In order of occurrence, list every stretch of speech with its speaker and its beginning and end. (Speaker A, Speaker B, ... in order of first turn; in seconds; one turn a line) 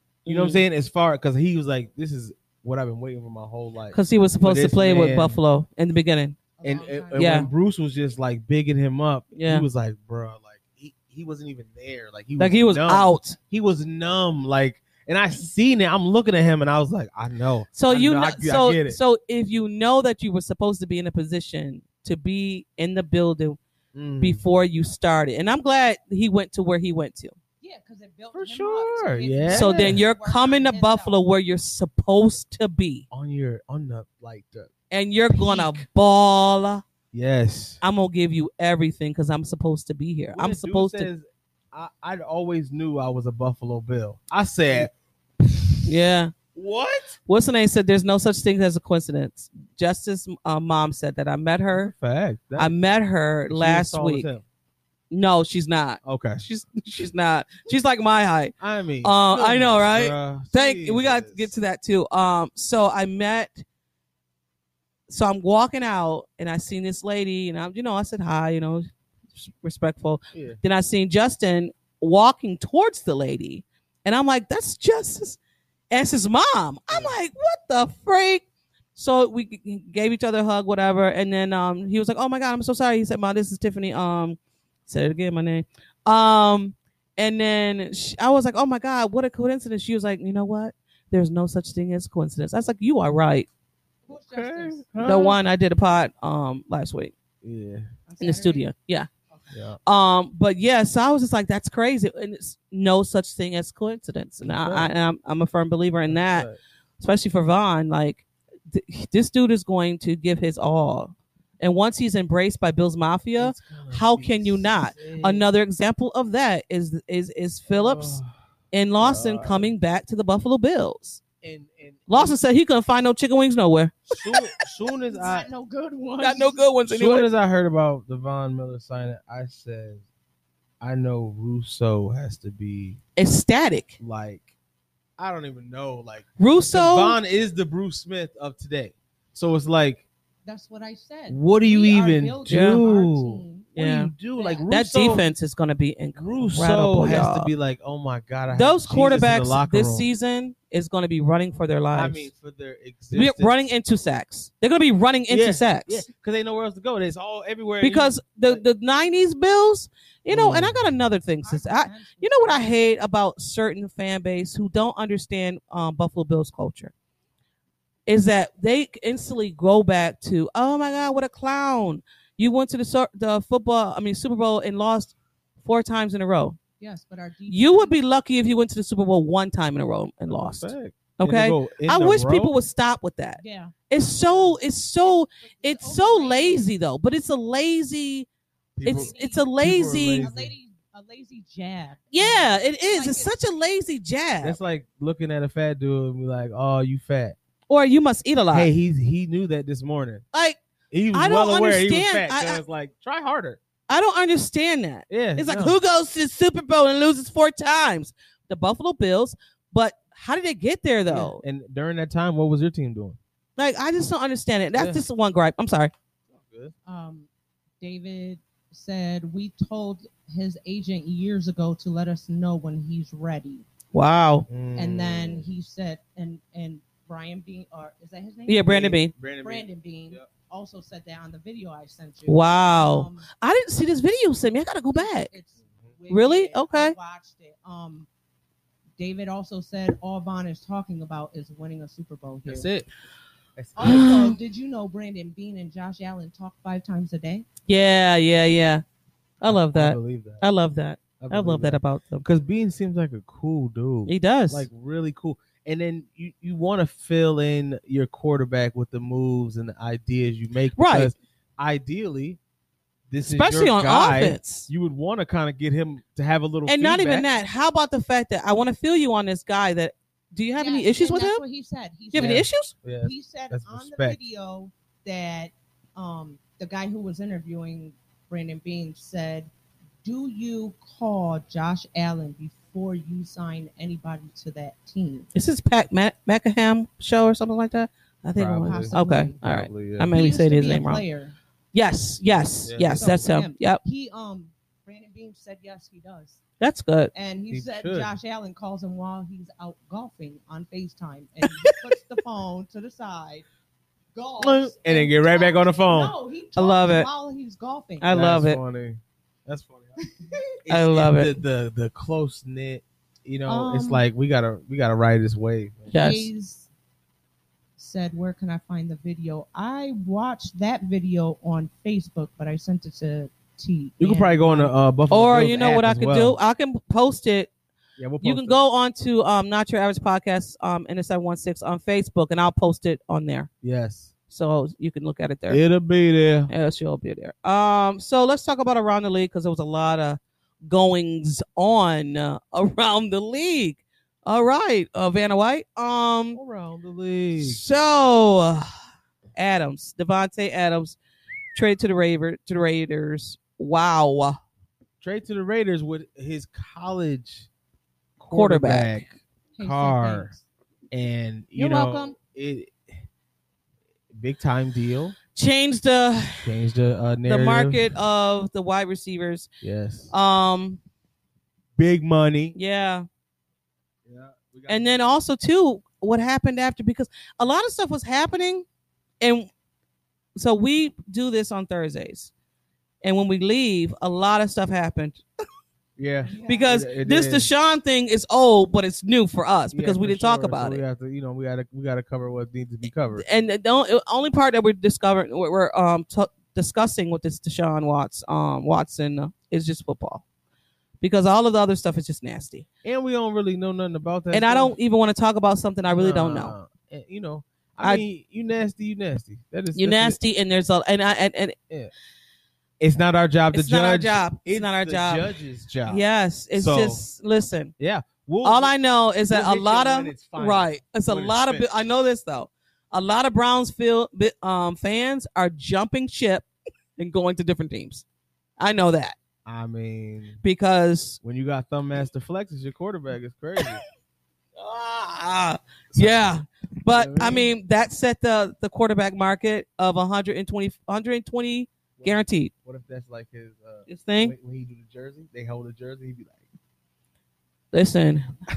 Speaker A: 0.2-0.6
Speaker B: 0.3-5.4
Speaker A: 3.9-6.4
Speaker C: 6.6-7.5
Speaker B: 6.6-19.0
Speaker A: 7.2-7.5
Speaker A: 9.3-9.7
Speaker A: 12.4-13.4
Speaker A: 17.8-23.6
Speaker B: 23.9-24.4
Speaker A: 24.2-27.3
Speaker C: 27.6-31.1
Speaker B: 28.4-30.0
Speaker A: 29.5-33.0
Speaker B: 33.1-34.7
Speaker A: 34.9-36.8
Speaker B: 35.4-35.8
Speaker B: 37.1-37.8
Speaker A: 37.8-41.1
Speaker B: 40.3-46.0
Speaker A: 45.9-46.4
Speaker B: 46.5-47.2
Speaker A: 47.3-51.9
Speaker B: 51.7-52.7
Speaker A: 52.6-54.3
Speaker B: 53.5-54.4
Speaker A: 55.1-63.6
Speaker B: 56.0-56.4
Speaker B: 58.6-61.5
Speaker A: 65.1-75.4
Speaker B: 70.3-70.6
Speaker A: 75.9-78.4
Speaker B: 76.9-77.2
Speaker A: 79.0-93.5
Speaker C: 94.1-95.1
Speaker B: 94.3-95.4
Speaker A: 95.0-97.1
Speaker B: 97.4-97.9
Speaker C: 98.1-98.7
Speaker A: 98.2-99.1
Speaker C: 99.3-99.6
Speaker B: 99.5-99.8
Speaker A: 99.8-106.5
Speaker B: 104.5-104.9
Speaker B: 106.1-106.6
Speaker A: 107.0-118.2
Speaker B: 113.4-115.5
Speaker B: 117.7-118.3
Speaker A: 118.7-121.2
Speaker B: 119.0-119.7
Speaker B: 121.4-122.4
Speaker A: 122.1-124.5
Speaker B: 124.1-125.5
Speaker C: 125.1-126.7
Speaker A: 126.2-127.3
Speaker B: 126.9-130.0
Speaker B: 130.8-133.0
Speaker A: 133.2-134.0
Speaker B: 134.0-134.5
Speaker B: 135.2-140.1
Speaker A: 136.4-137.2
Speaker C: 140.4-143.7
Speaker B: 141.3-145.2
Speaker A: 142.5-142.8
Speaker A: 143.8-144.1
Speaker C: 144.3-144.7
Speaker A: 144.7-147.5
Speaker B: 146.2-150.1
Speaker A: 148.5-152.3
Speaker B: 151.9-153.6
Speaker A: 153.1-156.1
Speaker B: 155.3-158.6
Speaker A: 157.8-166.9
Speaker B: 160.3-160.9
Speaker C: 161.4-162.7
Speaker A: 168.1-176.6
Speaker C: 176.8-177.9
Speaker A: 177.5-188.3
Speaker B: 180.3-182.5
Speaker C: 183.4-186.7
Speaker B: 188.8-190.5
Speaker A: 188.8-190.2
Speaker C: 188.8-189.5
Speaker C: 190.1-193.3
Speaker A: 192.1-194.6
Speaker B: 194.4-197.4
Speaker A: 197.7-198.7
Speaker B: 198.5-200.2
Speaker A: 200.3-200.6
Speaker B: 200.9-203.6
Speaker A: 201.1-202.6
Speaker A: 203.9-211.4
Speaker B: 205.1-205.8
Speaker B: 211.1-213.2
Speaker A: 213.6-215.9
Speaker B: 214.7-215.0
Speaker B: 216.3-216.7
Speaker C: 216.9-217.3
Speaker C: 217.8-223.7
Speaker A: 223.9-224.5
Speaker B: 224.5-225.4
Speaker C: 224.8-233.3
Speaker A: 228.5-229.1
Speaker B: 228.7-230.3
Speaker A: 232.3-235.3
Speaker C: 234.9-238.1
Speaker A: 236.1-236.9
Speaker C: 239.0-242.7
Speaker B: 242.5-242.9
Speaker B: 243.6-244.3
Speaker C: 243.8-247.5
Speaker A: 243.8-244.3
Speaker A: 247.7-248.8
Speaker A: 249.4-252.3
Speaker B: 249.4-250.4
Speaker B: 251.2-262.4
Speaker A: 254.1-254.7
Speaker A: 260.8-261.1
Speaker B: 263.1-267.3
Speaker A: 263.2-264.7
Speaker A: 266.7-271.4
Speaker C: 270.6-272.4
Speaker A: 272.1-272.7
Speaker B: 272.1-274.2
Speaker C: 273.0-279.5
Speaker C: 280.0-285.3
Speaker A: 285.4-291.0
Speaker B: 288.4-290.1
Speaker C: 288.6-289.4
Speaker C: 290.1-291.4
Speaker A: 291.7-293.8
Speaker B: 292.7-293.2
Speaker C: 292.9-296.4
Speaker A: 296.6-297.1
Speaker C: 297.1-303.5
Speaker B: 297.5-298.1
Speaker C: 304.1-308.1
Speaker B: 304.4-306.2
Speaker A: 306.6-307.1
Speaker A: 308.0-308.6
Speaker B: 308.1-316.0
Speaker A: 310.7-311.4
Speaker C: 313.5-314.0
Speaker A: 315.9-316.3
Speaker C: 316.0-316.7
Speaker C: 317.8-324.7
Speaker B: 324.0-326.4
Speaker A: 325.1-327.5
Speaker B: 328.0-328.6
Speaker A: 328.2-333.5
Speaker B: 333.6-334.1
Speaker A: 334.3-335.6
Speaker B: 335.5-336.5
Speaker A: 336.5-346.4
Speaker B: 346.3-347.6
Speaker A: 347.4-348.7
Speaker A: 349.4-351.0
Speaker A: 351.5-354.4
Speaker B: 355.0-357.5
Speaker B: 358.2-360.3
Speaker A: 358.3-359.0
Speaker C: 359.6-360.4
Speaker B: 360.9-362.8
Speaker C: 361.6-362.2
Speaker B: 364.1-365.2
Speaker A: 365.4-366.5
Speaker B: 366.4-367.9
Speaker A: 367.3-369.5
Speaker B: 369.6-370.1
Speaker A: 370.1-370.8
Speaker B: 371.8-372.6
Speaker A: 372.6-373.1
Speaker B: 374.1-375.0
Speaker A: 374.7-378.6
Speaker A: 379.2-379.5
Speaker A: 380.4-382.3
Speaker A: 383.0-385.2
Speaker B: 386.0-387.5
Speaker C: 386.2-386.8
Speaker A: 386.4-390.8
Speaker B: 389.7-393.2
Speaker A: 393.1-400.2
Speaker A: 401.0-402.7
Speaker B: 402.8-404.8
Speaker A: 404.3-406.5
Speaker B: 405.9-410.2
Speaker A: 409.8-411.6
Speaker B: 412.8-416.0
Speaker A: 413.5-415.2
Speaker A: 415.9-417.7
Speaker B: 416.6-417.0
Speaker B: 417.8-418.7
Speaker A: 418.4-426.5
Speaker B: 419.3-421.7
Speaker A: 427.0-428.0
Speaker A: 428.6-429.2
Speaker B: 429.5-430.4
Speaker A: 430.4-431.2
Speaker B: 431.2-433.8
Speaker A: 434.6-442.5
Speaker B: 435.9-436.3
Speaker B: 436.9-437.5
Speaker B: 442.0-446.4
Speaker A: 443.9-444.3
Speaker A: 447.7-448.3